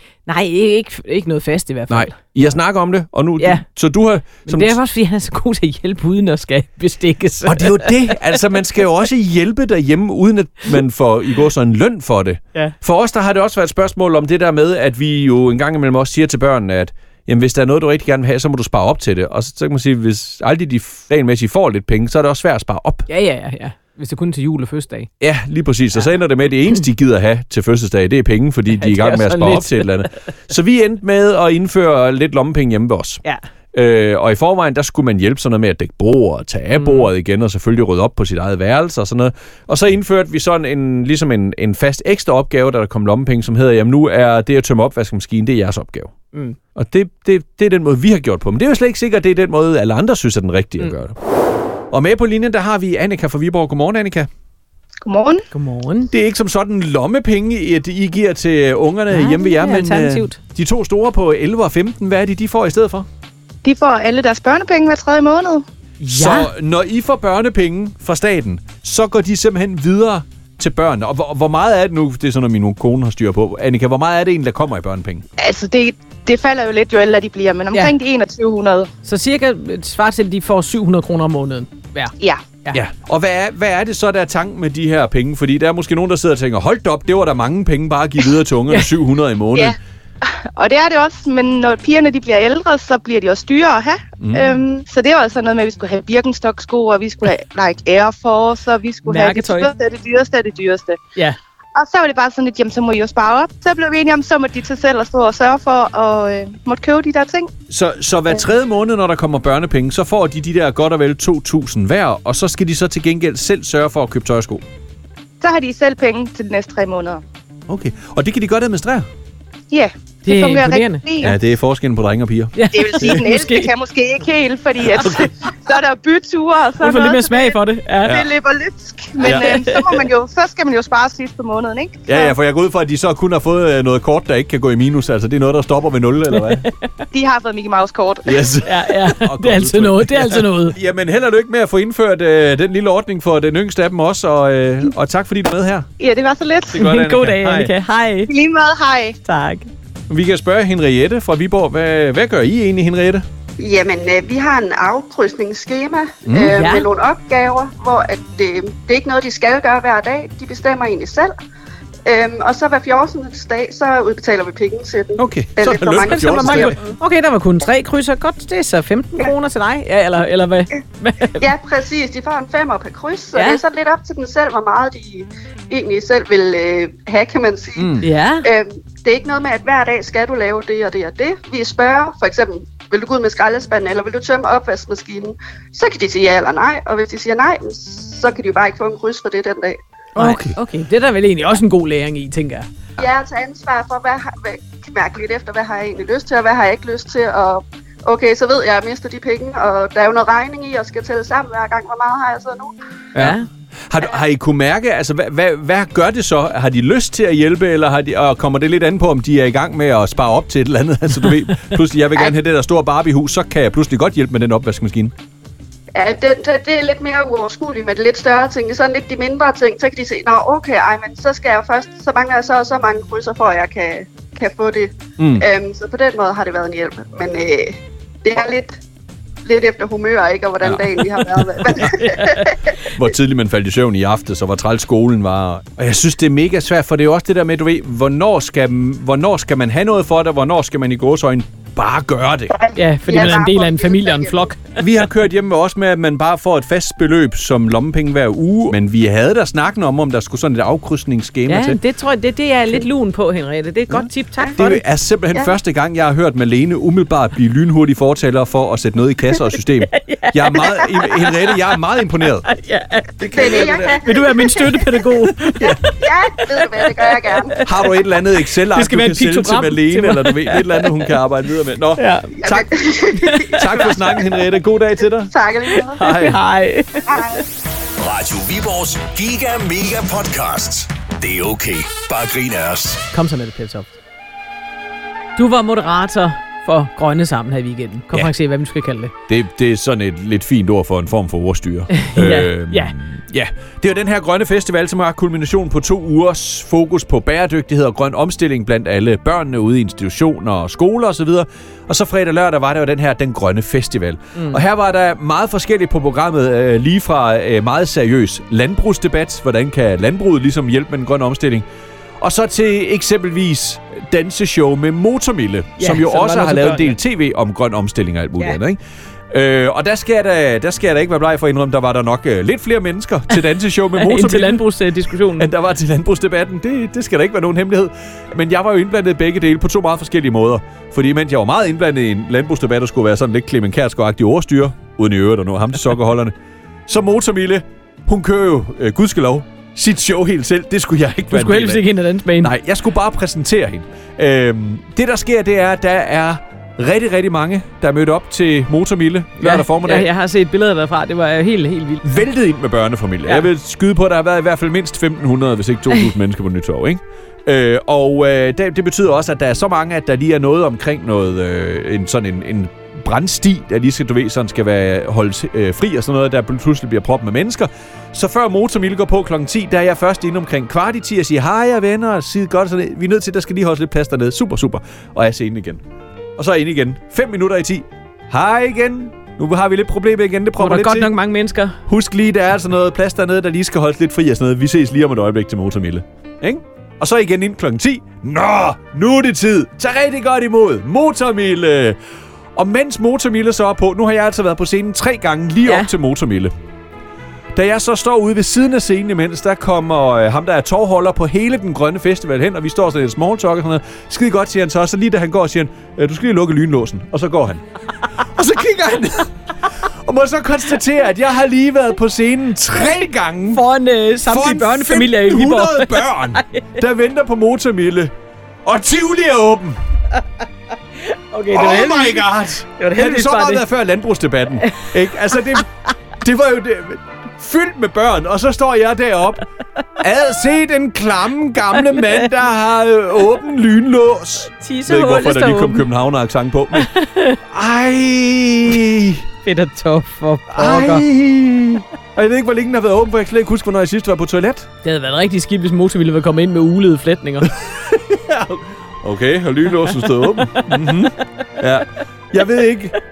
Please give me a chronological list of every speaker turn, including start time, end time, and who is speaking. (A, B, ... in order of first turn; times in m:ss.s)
0:00.3-0:02.2 A
0:01.9-0:04.8 B
0:03.4-0:03.6 A
0:04.4-0:08.2 A
0:07.4-0:23.1 B
0:23.1-0:25.1 A
0:25.2-0:46.1 B
0:28.8-0:30.3 A
0:36.8-0:37.1 A
0:46.7-0:51.2 B
0:51.9-0:54.3 B
0:55.0-0:55.4 C
0:55.5-0:56.1 A
0:56.1-1:03.1 B
0:59.1-1:00.4 A
1:03.6-1:05.6 C
1:06.0-1:15.2 B
1:06.1-1:06.5 A
1:15.4-1:18.9 C
1:19.0-1:22.8 A
1:22.2-1:22.4 C
1:22.7-1:29.8 B
1:29.5-1:41.0 C
1:34.2-1:34.4 B
1:39.0-1:39.7 A
1:41.7-1:47.5 C
1:47.7-1:54.6 B
1:55.4-1:57.2 C
1:57.7-1:59.1 B
1:59.7-2:01.4 C
2:00.2-2:01.0 A
2:01.2-2:03.1 B
2:02.6-2:03.7 A
2:02.7-2:12.3 C
2:06.8-2:08.2 A
2:09.2-2:09.5 B
2:09.3-2:10.0 A
2:12.1-2:16.7 B
2:16.3-2:17.0 A
2:17.1-2:18.4 C
2:18.2-2:25.9 B
2:18.6-2:20.8 A
2:26.0-2:27.0 C
2:26.7-2:27.7 B
2:26.7-2:28.3 A
2:28.3-2:29.2 C
2:29.2-2:29.7 A
2:30.1-2:33.2 B
2:33.6-2:41.3 D
2:36.2-2:36.6 B
2:36.5-2:36.9 A
2:42.0-2:46.8 D
2:45.2-2:46.8 B
2:46.0-2:51.4 A
2:51.4-3:09.8 D
2:53.3-2:53.6 A
2:57.8-2:58.0 B
2:58.0-2:58.4 A
3:10.2-3:12.7 A
3:10.2-3:10.6 B
3:13.0-3:22.7 D
3:23.1-3:35.1 B
3:23.2-3:23.5 A
3:35.9-3:48.8 D
3:45.2-3:45.4 B
3:49.4-3:52.7 D
3:50.6-3:51.9 B
3:51.8-3:52.5 A
3:52.9-4:02.6 B
4:02.5-4:04.5 D
4:02.7-4:04.6 A
4:04.8-4:11.8 B
4:11.5-4:14.8 A
4:13.9-4:22.5 B
4:19.3-4:21.5 A
4:22.5-4:26.9 A
4:23.2-4:24.0 B
4:23.2-4:25.0 D
4:26.0-4:27.6 D
4:27.4-4:27.8 A
4:27.6-4:32.7 B
4:28.7-4:31.1 A
4:32.0-4:32.3 A
4:32.4-4:34.1 D
4:33.2-4:33.9 A
4:33.4-4:35.3 B
4:35.3-4:36.0 D
4:35.7-4:37.0 A
4:36.0-4:36.4 B
4:37.1-4:37.4 D
4:38.0-4:43.0 E
4:43.1-4:43.9 A
4:45.4-4:49.1 A
4:49.3-5:11.7 B
4:52.0-4:52.9 A
5:04.3-5:04.6 A
5:12.2-5:24.6 B
5:15.8-5:17.0 A
5:24.0-5:25.5 A
5:25.3-5:36.3 B
5:36.9-5:41.9 B
5:41.3-5:42.5 A
5:42.4-5:50.1 B
5:49.4-5:52.3 A
5:52.0-6:15.8 B
6:16.4-6:21.1 B
6:20.6-6:21.8 A
6:21.9-6:32.0 B
6:32.5-6:36.5 B
6:37.5-6:47.6 B
6:48.2-6:53.6 B
6:53.5-6:56.6 A
6:54.2-6:58.1 B
6:58.6-6:59.8 B
7:01.0-7:03.6 A
7:01.5-7:09.4 B
7:04.6-7:04.9 A
7:10.0-7:16.9 B
7:11.9-7:12.2 A
7:14.6-7:15.8 A
7:16.7-7:17.4 A
7:17.5-7:19.2 B
7:19.4-7:21.0 A
7:20.5-7:24.7 B
7:24.8-7:27.5 A
7:27.5-7:33.0 B
7:29.9-7:31.0 A